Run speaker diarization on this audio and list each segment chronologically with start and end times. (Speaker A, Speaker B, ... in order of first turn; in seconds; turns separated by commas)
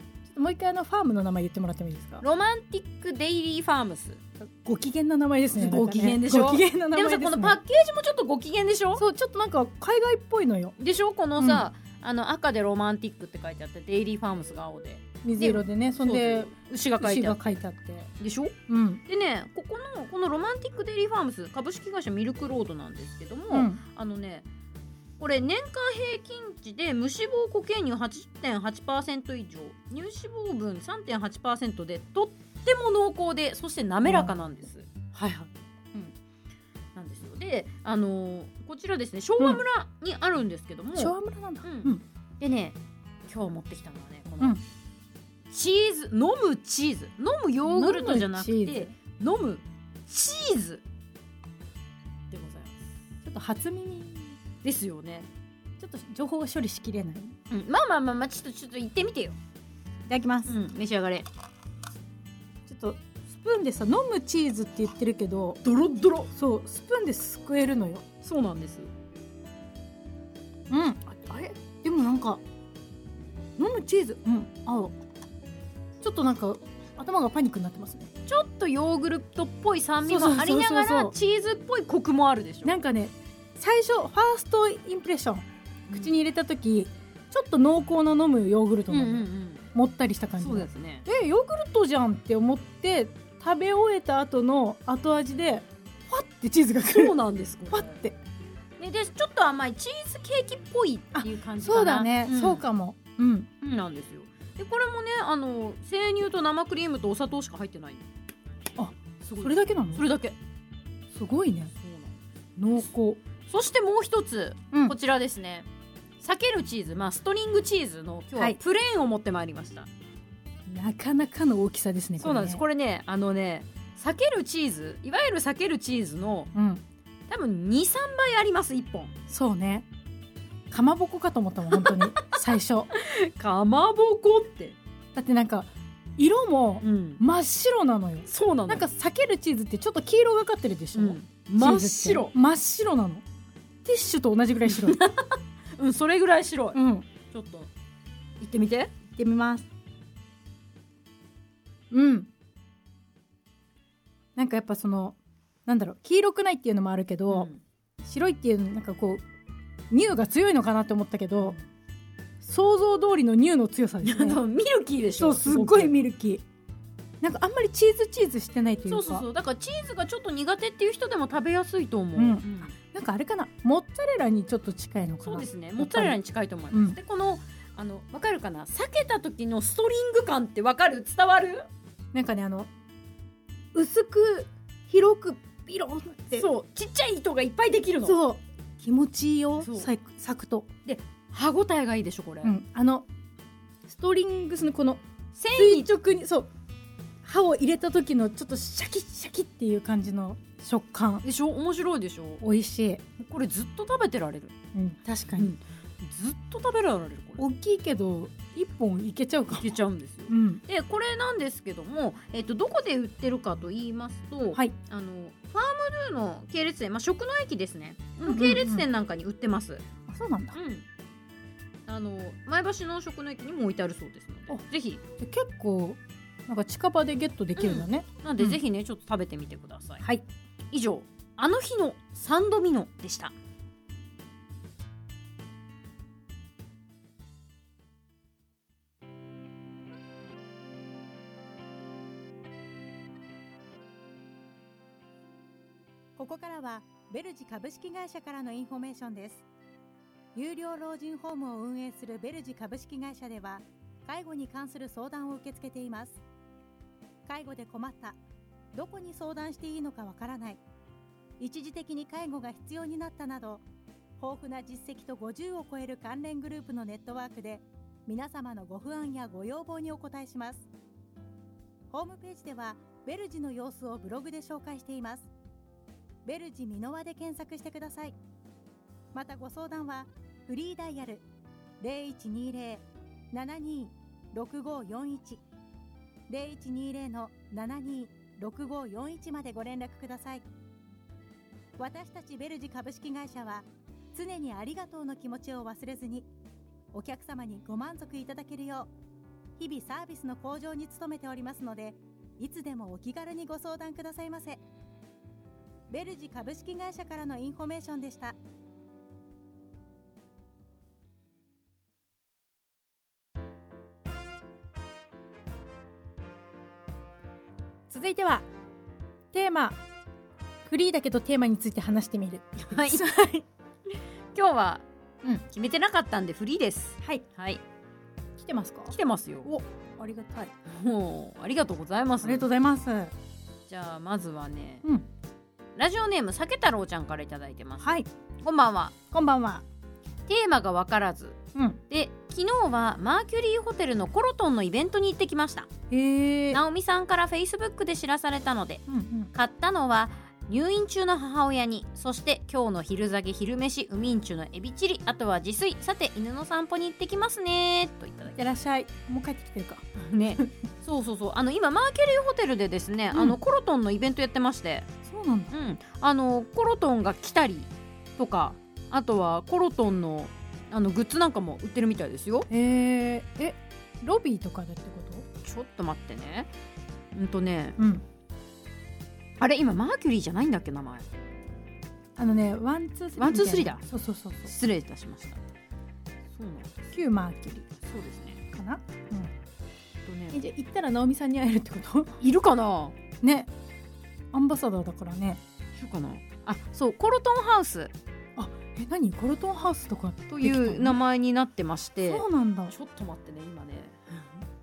Speaker A: 0.2-2.2, Speaker B: 2.2-4.2, Speaker A: 4.4-7.6, Speaker B: 5.5-9.0, Speaker A: 8.9-10.7, Speaker B: 10.8-17.6, Speaker A: 11.4-11.7, Speaker A: 15.2-18.1, Speaker B: 18.2-24.5, Speaker A: 18.7-19.0, Speaker A: 23.5-23.8, Speaker B: 25.2-35.5, Speaker A: 34.0-34.4, Speaker B: 36.9-44.6, Speaker A: 40.9-42.0, Speaker B: 45.5-50.8, Speaker A: 47.6-48.9, Speaker B: 52.3-52.8, Speaker A: 53.2-54.4, Speaker B: 54.6-55.3, Speaker A: 55.8-57.4, Speaker B: 57.5-59.4, Speaker A: 60.1-60.5, Speaker B: 60.5-61.3, Speaker A: 62.6-65.6, Speaker B: 65.6-66.3, Speaker A: 66.3-68.0, Speaker B: 68.2-68.9, Speaker A: 70.7-72.4, Speaker A: 73.6-75.0, Speaker A: 76.0-78.1, Speaker B: 78.3-82.8, Speaker A: 80.0-81.1, Speaker A: 82.6-97.2, Speaker B: 85.9-86.1, Speaker B: 88.9-89.7, Speaker B: 90.4-91.0, Speaker B: 96.8-97.9, Speaker A: 97.7-98.2, Speaker B: 98.8-102.6, Speaker A: 101.1-103.5, Speaker B: 103.6-108.0, Speaker A: 108.8-110.0, Speaker B: 109.2-110.4, Speaker A: 111.1-111.7, Speaker B: 111.8-112.2, Speaker A: 112.5-113.2, Speaker B: 113.4-115.7, Speaker B: 116.2-119.9, Speaker A: 120.7-122.6, Speaker B: 122.2-126.5, Speaker A: 126.5-126.8, Speaker B: 127.3-129.2, Speaker A: 129.3-129.9, Speaker A: 130.7-132.9, Speaker B: 131.7-132.4, Speaker B: 132.9-134.8, Speaker A: 135.1-143.2, Speaker B: 136.8-137.2, Speaker B: 138.3-138.9, Speaker B: 140.9-142.3, Speaker A: 143.8-145.0, Speaker B: 144.7-147.7, Speaker A: 146.7-147.1, Speaker B: 148.4-148.9, Speaker A: 149.1-149.7, Speaker A: 151.9-152.3, Speaker A: 154.3-157.5, Speaker B: 157.3-157.6, Speaker A: 158.0-159.2, Speaker A: 159.9-161.6, Speaker A: 162.4-164.4, Speaker B: 164.0-165.9, Speaker A: 165.2-166.4, Speaker A: 167.2-169.2, Speaker B: 168.9-172.7, Speaker A: 172.2-176.2, Speaker B: 175.2-181.7, Speaker A: 176.7-177.0, Speaker A: 182.1-182.7, Speaker A: 183.7-186.5, Speaker B: 186.3-188.2, Speaker A: 188.0-190.7, Speaker B: 189.6-189.9, Speaker B: 190.8-192.5, Speaker A: 192.4-193.1, Speaker A: 193.8-196.5, Speaker B: 195.3-195.9, Speaker A: 197.2-201.2, Speaker B: 201.2-202.4, Speaker A: 202.4-203.0, Speaker B: 203.2-204.5, Speaker A: 204.7-205.5, Speaker B: 205.3-207.4, Speaker A: 207.4-210.6, Speaker B: 209.5-219.8, Speaker A: 218.2-218.9, Speaker A: 220.1-220.6, Speaker B: 220.5-220.8, Speaker B: 221.9-225.0, Speaker A: 225.2-228.6, Speaker B: 227.6-230.0, Speaker B: 230.7-233.3, Speaker A: 246.2-249.4, Speaker A: 250.3-256.2, Speaker A: 257.2-258.2, Speaker A: 258.7-260.6, Speaker A: 261.4-263.6, Speaker A: 264.2-270.7, Speaker A: 271.9-275.3, Speaker A: 276.2-278.2, Speaker A: 279.1-281.2, Speaker A: 281.8-285.4, Speaker A: 286.3-290.5, Speaker A: 291.8-296.3, Speaker A: 296.9-298.9, Speaker A: 299.6-304.6, Speaker A: 305.9-308.4, Speaker A: 317.9-318.5, Speaker A: 319.3-319.8, Speaker A: 320.6-323.4, Speaker B: 322.6-323.0, Speaker B: 323.9-324.9, Speaker B: 325.5-327.6, Speaker A: 328.4-330.5, Speaker B: 328.9-329.5, Speaker B: 330.7-332.5, Speaker A: 332.2-333.1, Speaker B: 333.7-334.8, Speaker B: 335.8-337.9, Speaker A: 337.8-338.1, Speaker B: 338.4-338.9, Speaker A: 339.1-339.6, Speaker B: 340.3-341.4, Speaker A: 341.5-341.8, Speaker B: 341.9-345.7, Speaker A: 345.9-346.6, Speaker B: 346.5-348.8, Speaker A: 348.9-349.3, Speaker B: 349.3-358.4, Speaker A: 358.3-359.9, Speaker B: 359.9-364.9, Speaker A: 363.1-363.4, Speaker A: 365.0-365.5, Speaker B: 365.5-372.5, Speaker A: 372.5-375.2, Speaker B: 375.4-376.5, Speaker B: 377.1-377.8, Speaker A: 377.8-378.0, Speaker B: 379.4-381.1, Speaker A: 382.1-384.5, Speaker B: 383.2-383.8, Speaker B: 384.4-385.4, Speaker B: 386.3-387.0, Speaker A: 386.9-387.7, Speaker B: 387.8-388.4, Speaker A: 388.5-389.3, Speaker B: 390.1-390.4, Speaker A: 390.3-392.2, Speaker B: 392.2-392.9, Speaker A: 393.2-393.5, Speaker A: 394.3-395.4, Speaker B: 395.8-397.9, Speaker A: 398.4-401.0, Speaker B: 400.3-404.2, Speaker A: 402.1-402.7